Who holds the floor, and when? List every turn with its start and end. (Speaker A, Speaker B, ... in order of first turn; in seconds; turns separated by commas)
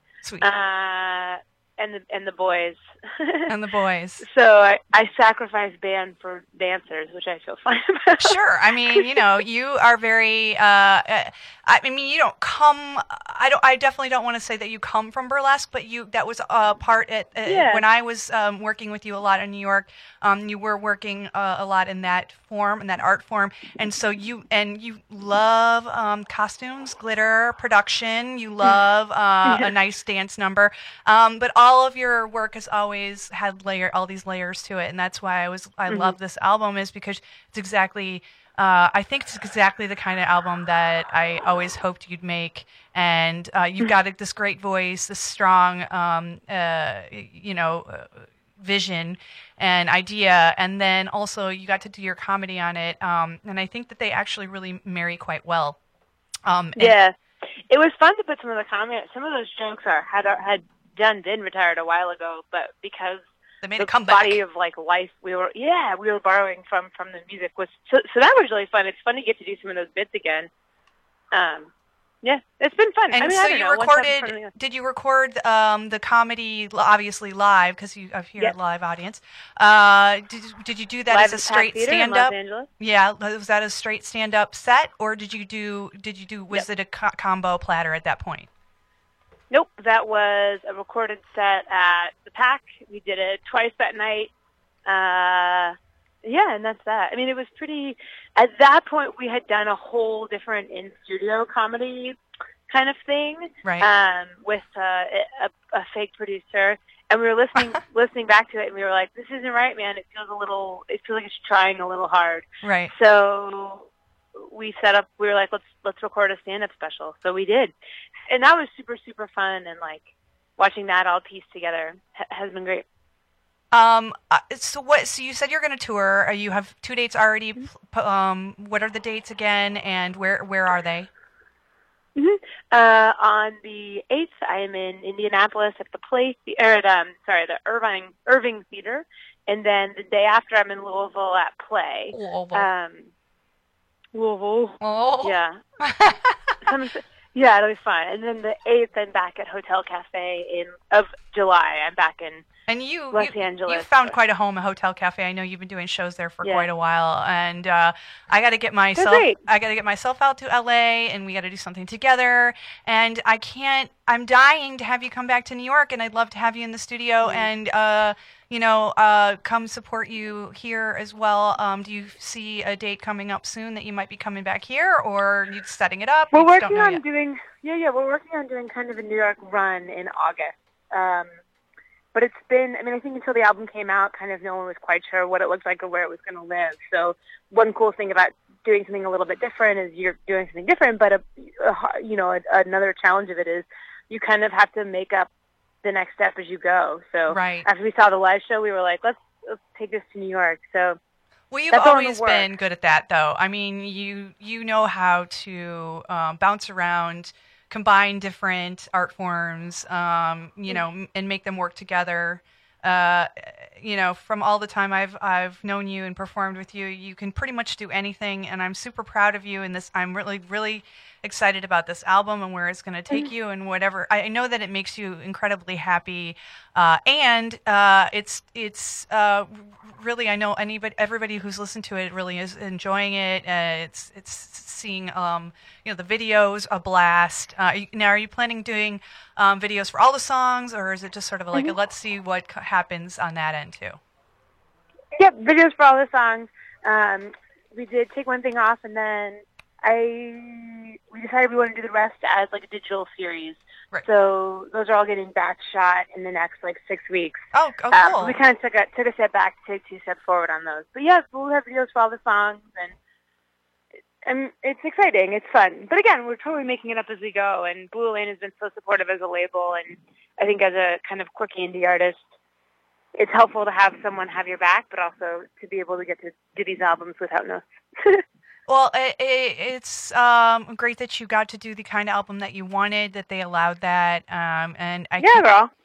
Speaker A: 0.4-3.5, Speaker B: 3.5-4.2, Speaker A: 4.2-8.4, Speaker B: 8.2-55.8, Speaker A: 17.4-17.8, Speaker A: 29.4-29.7, Speaker A: 35.9-36.1, Speaker B: 56.5-57.0, Speaker A: 56.8-57.1, Speaker A: 57.7-63.2, Speaker B: 63.6-64.4, Speaker A: 63.8-70.5, Speaker A: 71.3-71.7, Speaker A: 72.2-74.5, Speaker B: 73.1-88.5, Speaker A: 81.1-82.7, Speaker A: 89.5-94.3, Speaker A: 94.8-102.2, Speaker A: 102.7-117.7, Speaker B: 112.6-112.9, Speaker A: 118.3-120.0, Speaker A: 120.6-122.8, Speaker B: 123.7-131.1, Speaker A: 132.2-143.1, Speaker B: 142.1-142.7, Speaker A: 144.1-145.6, Speaker B: 144.8-146.5, Speaker A: 146.6-152.4, Speaker B: 152.7-177.0, Speaker A: 153.1-154.1, Speaker A: 156.4-156.7, Speaker A: 158.9-159.4, Speaker A: 167.2-167.5, Speaker A: 176.3-181.3, Speaker A: 182.1-195.3, Speaker A: 195.8-201.0, Speaker B: 197.3-197.7, Speaker B: 201.5-244.0, Speaker A: 201.7-202.5, Speaker A: 245.2-257.4, Speaker B: 257.5-258.4, Speaker A: 257.9-262.9, Speaker A: 264.2-272.2, Speaker A: 273.1-278.2, Speaker B: 278.7-285.5, Speaker A: 285.2-285.7